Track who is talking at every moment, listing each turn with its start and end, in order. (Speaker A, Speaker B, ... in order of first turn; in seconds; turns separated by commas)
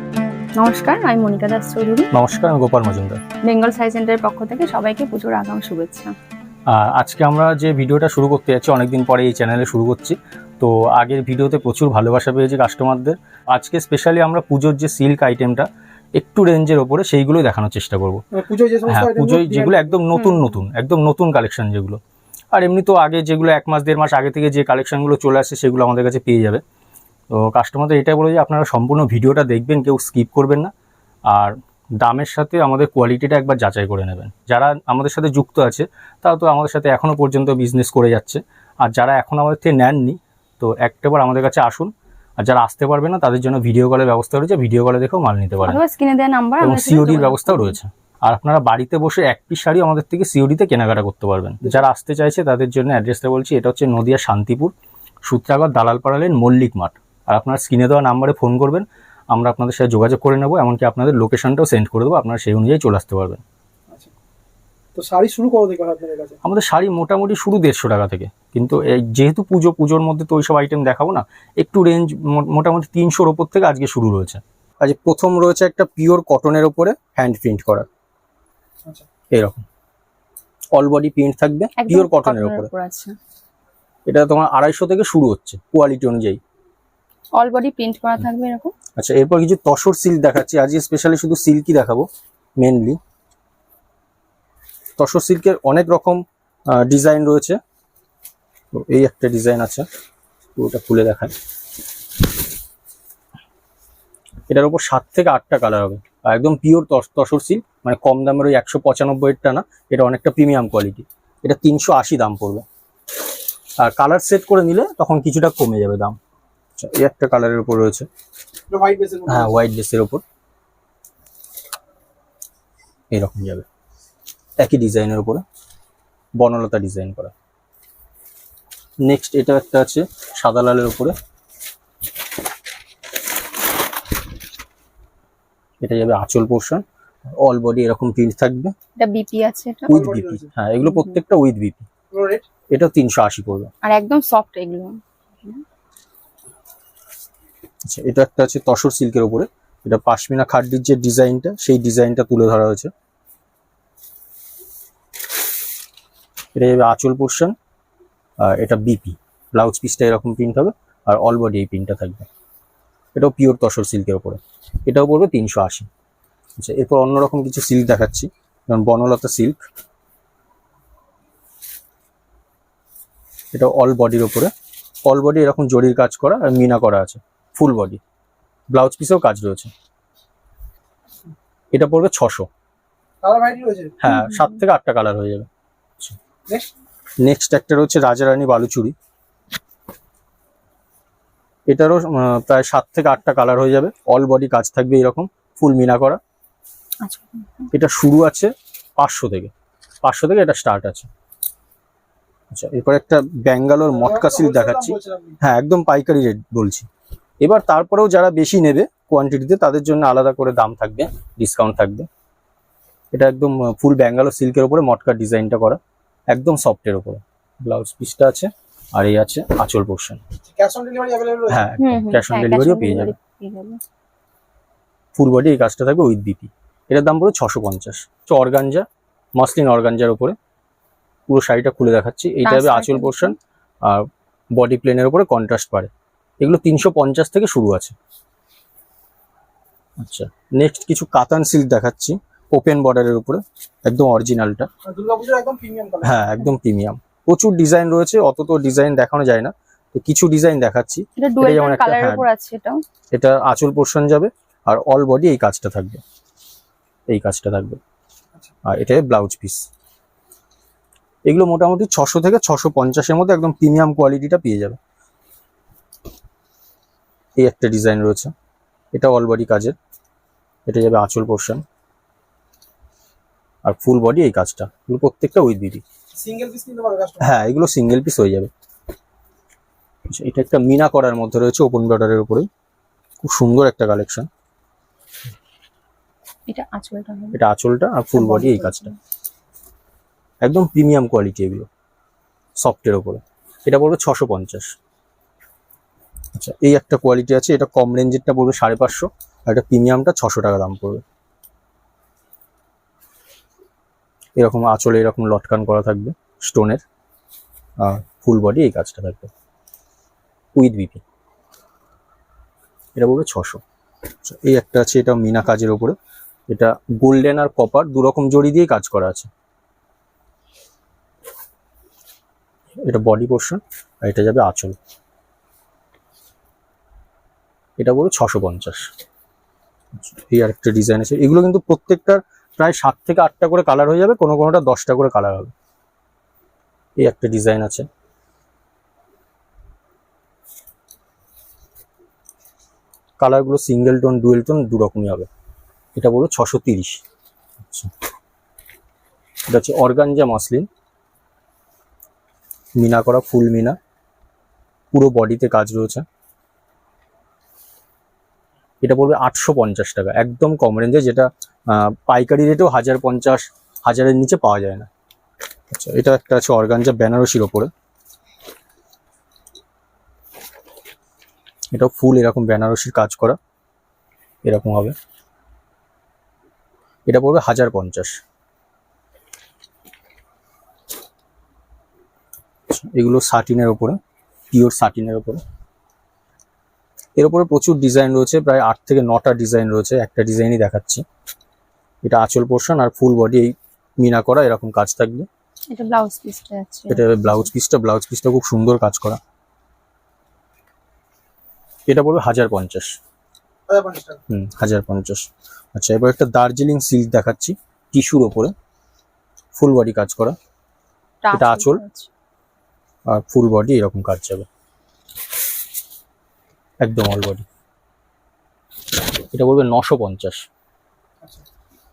Speaker A: 0.6-2.1, Speaker B: 2.1-3.2, Speaker A: 3.4-6.1, Speaker B: 6.7-18.2, Speaker C: 18.3-20.0, Speaker B: 18.9-22.0, Speaker A: 20.1-20.5, Speaker B: 22.5-26.6, Speaker B: 27.3-30.7, Speaker B: 31.3-45.8, Speaker A: 45.6-47.8, Speaker B: 46.6-54.7, Speaker B: 55.2-63.4, Speaker C: 64.9-66.4, Speaker B: 66.4-77.9, Speaker B: 79.3-79.6, Speaker B: 80.7-82.7, Speaker A: 81.8-83.1, Speaker B: 84.1-86.4, Speaker A: 87.3-88.7, Speaker B: 89.0-92.1, Speaker B: 92.6-93.0, Speaker B: 95.0-96.2, Speaker B: 96.7-97.6, Speaker B: 98.7-99.9, Speaker B: 100.5-101.3, Speaker B: 104.5-112.6, Speaker B: 113.8-116.2, Speaker B: 116.8-118.1, Speaker C: 118.7-119.6, Speaker B: 119.3-120.2, Speaker B: 123.1-123.7, Speaker B: 124.6-125.4, Speaker B: 126.4-127.3, Speaker B: 129.0-131.1, Speaker B: 135.8-138.7, Speaker A: 139.0-140.0, Speaker C: 139.9-140.5, Speaker B: 139.9-141.9, Speaker A: 140.8-141.1, Speaker C: 142.1-142.5, Speaker B: 142.7-143.7, Speaker A: 143.8-145.6, Speaker B: 147.9-152.9, Speaker B: 156.6-157.5, Speaker B: 158.4-162.3, Speaker B: 163.2-165.9, Speaker B: 166.6-169.6, Speaker B: 173.5-174.5, Speaker B: 175.0-178.0, Speaker B: 178.7-179.7, Speaker B: 181.7-182.5, Speaker C: 183.2-184.0, Speaker B: 184.0-185.5, Speaker A: 184.1-184.5, Speaker B: 187.2-188.9, Speaker B: 191.7-196.2, Speaker A: 197.0-197.7, Speaker B: 197.7-199.5, Speaker B: 200.0-201.1, Speaker B: 202.5-206.9, Speaker C: 203.9-205.4, Speaker B: 207.4-212.1, Speaker B: 213.1-220.2, Speaker C: 220.5-221.7, Speaker B: 221.5-223.2, Speaker A: 221.8-223.8, Speaker B: 225.2-228.9, Speaker B: 229.4-230.4, Speaker B: 231.3-237.9, Speaker A: 232.4-233.4, Speaker B: 240.0-244.7, Speaker C: 244.8-246.3, Speaker B: 246.0-252.2, Speaker A: 251.2-252.8, Speaker B: 253.1-256.0, Speaker B: 257.1-257.8, Speaker B: 258.6-259.7, Speaker B: 261.3-264.8, Speaker B: 267.4-268.3, Speaker B: 268.9-269.8, Speaker B: 270.7-271.6, Speaker B: 273.6-275.8, Speaker C: 276.2-277.3, Speaker B: 277.2-278.5, Speaker B: 280.1-282.4, Speaker B: 283.2-284.3, Speaker A: 286.5-287.4, Speaker B: 287.3-288.9, Speaker A: 288.1-289.0, Speaker B: 290.4-291.7, Speaker B: 292.6-294.8, Speaker B: 296.4-301.0, Speaker B: 304.4-306.8, Speaker B: 307.8-309.3, Speaker B: 310.6-311.0, Speaker B: 312.9-313.6, Speaker B: 314.2-315.9, Speaker B: 316.5-319.3, Speaker B: 322.9-324.8, Speaker B: 327.8-328.9, Speaker B: 329.9-335.5, Speaker B: 337.0-337.9, Speaker B: 343.2-345.3, Speaker B: 345.9-347.0, Speaker B: 347.6-347.9, Speaker B: 349.5-350.7, Speaker B: 352.8-353.8, Speaker B: 354.9-356.1, Speaker B: 358.8-364.9, Speaker B: 365.7-367.7, Speaker B: 371.7-373.4, Speaker B: 374.4-374.9, Speaker B: 377.1-378.2, Speaker B: 382.7-384.0, Speaker B: 384.5-385.4, Speaker B: 387.2-391.0, Speaker B: 392.0-395.3, Speaker A: 395.7-397.5, Speaker B: 396.9-399.2, Speaker B: 401.9-402.9, Speaker C: 403.7-404.2, Speaker B: 404.3-408.5, Speaker B: 409.6-410.4, Speaker A: 411.2-412.1, Speaker B: 411.3-411.8, Speaker B: 413.1-414.5, Speaker B: 416.8-417.4, Speaker B: 419.3-420.5